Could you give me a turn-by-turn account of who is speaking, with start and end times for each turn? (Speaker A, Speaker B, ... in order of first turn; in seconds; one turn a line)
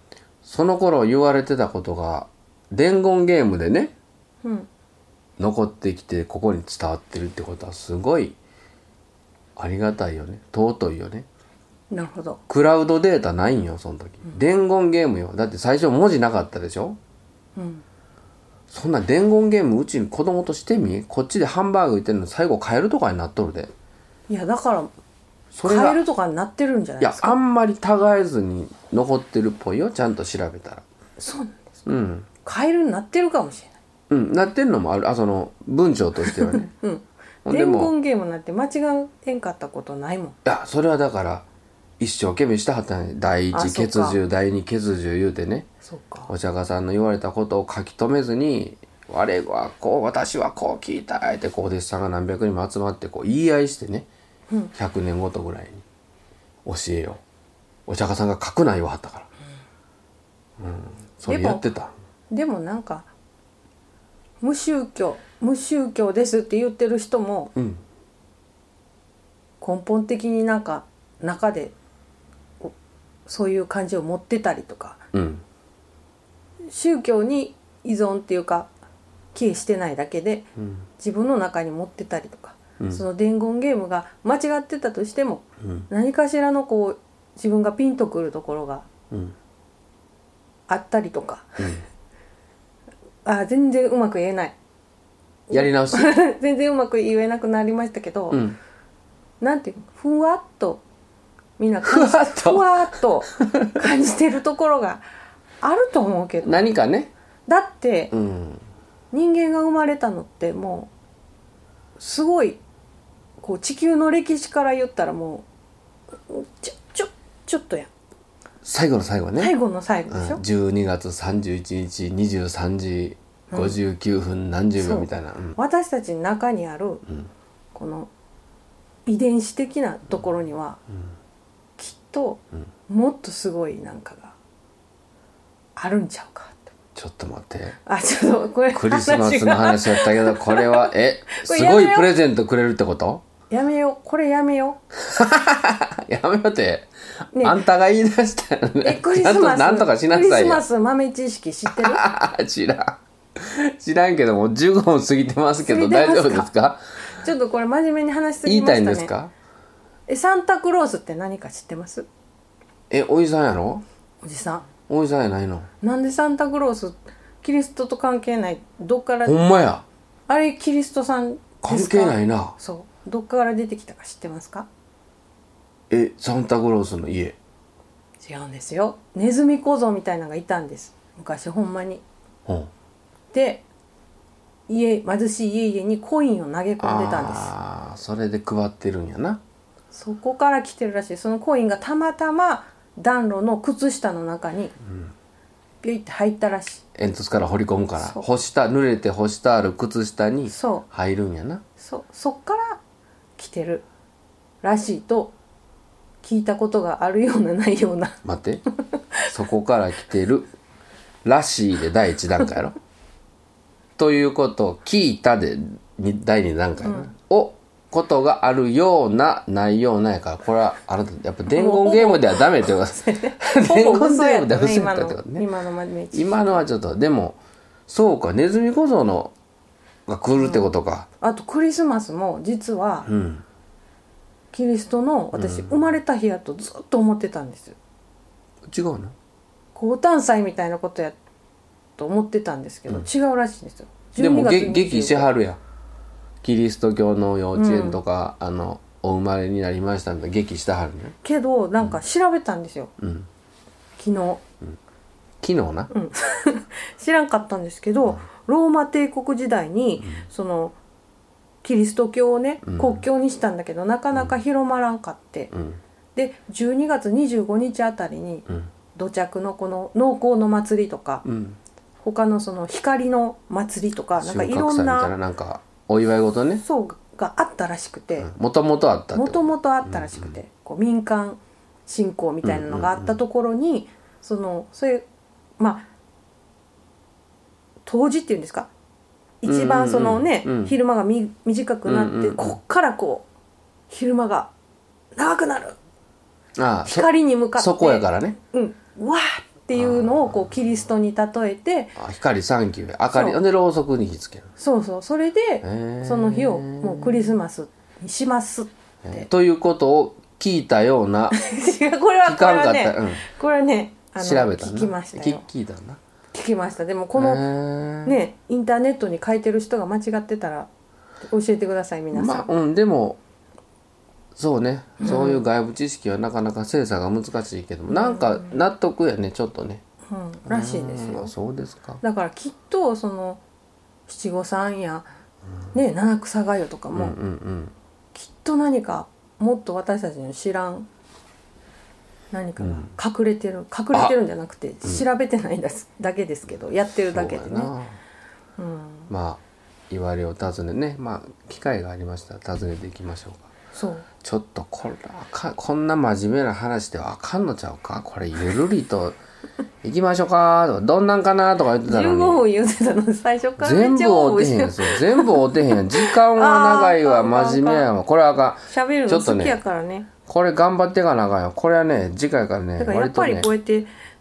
Speaker A: 0.4-3.9
Speaker B: 4.4-4.7
Speaker A: 5.4-8.4
Speaker A: 9.6-11.3
Speaker B: 11.9-12.4
Speaker A: 12.5-17.0
Speaker B: 17.6-17.8
Speaker A: 18.7-23.7
Speaker B: 24.3-24.9
Speaker A: 25.5-26.0
Speaker B: 25.6-27.4
Speaker A: 27.0-30.8
Speaker B: 31.2-31.9
Speaker A: 31.9-32.3
Speaker B: 32.4-33.8
Speaker A: 34.1-36.7
Speaker B: 36.3-40.4
Speaker A: 37.5-37.9
Speaker A: 40.5-41.5
Speaker A: 42.0-45.7
Speaker B: 43.5-44.2
Speaker B: 45.8-46.3
Speaker A: 46.3-54.1
Speaker A: 54.7-55.8
Speaker A: 56.6-57.2
Speaker A: 57.9-59.3
Speaker A: 60.6-61.9
Speaker B: 61.3-61.6
Speaker B: 62.3-63.1
Speaker B: 64.4-67.5
Speaker A: 67.6-67.8
Speaker B: 69.6-71.7
Speaker B: 73.3-75.0
Speaker A: 75.1-75.4
Speaker B: 76.7-78.7
Speaker B: 79.3-88.9
Speaker A: 80.6-80.8
Speaker A: 89.1-89.4
Speaker B: 90.7-91.8
Speaker B: 93.2-94.6
Speaker B: 95.5-98.5
Speaker A: 95.5-96.1
Speaker A: 98.3-98.6
Speaker B: 99.4-100.8
Speaker B: 101.6-105.0
Speaker A: 101.8-102.8
Speaker A: 103.4-103.8
Speaker B: 105.6-106.7
Speaker A: 106.4-107.1
Speaker B: 107.5-108.1
Speaker A: 108.1-108.6
Speaker B: 109.1-110.9
Speaker B: 112.0-112.6
Speaker B: 113.4-115.5
Speaker B: 116.3-117.9
Speaker A: 118.6-119.5
Speaker B: 119.4-120.4
Speaker A: 120.1-125.6
Speaker B: 123.5-123.8
Speaker B: 124.8-127.1
Speaker B: 127.7-128.1
Speaker B: 129.1-130.8
Speaker B: 131.8-134.4
Speaker B: 135.8-136.7
Speaker A: 136.9-137.8
Speaker B: 137.9-142.1
Speaker A: 138.7-143.2
Speaker B: 143.5-144.8
Speaker A: 145.0-150.7
Speaker B: 147.3-147.6
Speaker B: 148.8-152.0
Speaker A: 151.7-156.8
Speaker B: 155.7-156.5
Speaker B: 157.2-159.1
Speaker A: 158.4-159.3
Speaker B: 160.1-162.1
Speaker A: 162.9-163.8
Speaker B: 164.2-164.7
Speaker A: 164.9-165.7
Speaker B: 165.8-169.4
Speaker A: 169.2-169.8
Speaker B: 170.3-174.7
Speaker A: 171.6-172.6
Speaker A: 175.9-177.4
Speaker B: 178.2-182.0
Speaker A: 182.5-182.7
Speaker B: 183.3-183.7
Speaker B: 184.7-187.5
Speaker A: 186.8-189.4
Speaker B: 189.9-194.7
Speaker B: 195.8-196.8
Speaker A: 196.9-201.6
Speaker B: 198.0-198.3
Speaker B: 200.5-200.9
Speaker B: 201.8-202.8
Speaker B: 203.4-203.8
Speaker B: 204.6-205.3
Speaker B: 206.2-208.2
Speaker A: 208.2-208.6
Speaker B: 208.8-209.3
Speaker A: 209.3-210.5
Speaker A: 211.2-212.8
Speaker A: 214.0-225.5
Speaker B: 216.8-217.1
Speaker B: 221.5-226.6
Speaker A: 226.1-229.3
Speaker A: 230.1-231.1
Speaker B: 230.4-230.7
Speaker B: 231.2-233.1
Speaker A: 233.1-233.4
Speaker B: 234.5-237.8
Speaker A: 235.3-235.8
Speaker A: 238.7-239.2
Speaker B: 239.8-241.2
Speaker B: 242.0-245.3
Speaker A: 244.2-245.6
Speaker A: 246.4-251.2
Speaker B: 247.6-248.0
Speaker B: 251.2-252.9
Speaker A: 253.0-253.3
Speaker B: 254.0-254.4
Speaker A: 255.4-255.9
Speaker B: 255.9-260.8
Speaker B: 261.6-265.5
Speaker A: 262.7-263.0
Speaker A: 265.5-265.8
Speaker B: 266.2-271.2
Speaker A: 271.2-271.6
Speaker B: 272.0-275.1
Speaker A: 274.2-276.6
Speaker B: 276.6-278.3
Speaker A: 278.2-280.4
Speaker B: 279.1-285.1
Speaker A: 282.4-283.2
Speaker B: 285.6-285.9
Speaker B: 287.9-288.7
Speaker B: 289.4-293.3
Speaker A: 289.4-290.8
Speaker A: 291.9-292.6
Speaker B: 293.9-294.5
Speaker B: 295.2-295.8
Speaker A: 296.6-298.4
Speaker B: 296.9-302.0
Speaker A: 299.8-300.3
Speaker A: 302.0-304.5
Speaker B: 303.1-303.4
Speaker B: 304.6-309.3
Speaker A: 305.6-307.3
Speaker A: 309.1-311.4
Speaker B: 311.3-315.4
Speaker A: 312.2-313.2
Speaker A: 314.2-316.0
Speaker B: 316.3-317.5
Speaker A: 317.1-318.2
Speaker B: 318.1-320.7
Speaker B: 321.2-322.5
Speaker A: 322.1-323.2
Speaker A: 324.4-329.8
Speaker B: 325.0-325.4
Speaker B: 327.9-328.6
Speaker B: 330.1-331.3
Speaker A: 330.5-332.0
Speaker B: 332.0-333.4
Speaker B: 334.1-335.1
Speaker B: 335.7-337.2
Speaker A: 336.9-337.7
Speaker B: 338.1-340.9
Speaker B: 342.3-347.7
Speaker A: 342.6-342.9
Speaker A: 347.1-348.0
Speaker B: 348.6-349.1
Speaker A: 349.1-353.5
Speaker B: 353.7-354.1
Speaker A: 354.2-359.2
Speaker A: 359.8-362.4
Speaker B: 361.9-367.9
Speaker A: 363.6-369.6
Speaker B: 368.7-370.1
Speaker A: 370.3-373.5
Speaker B: 372.8-373.9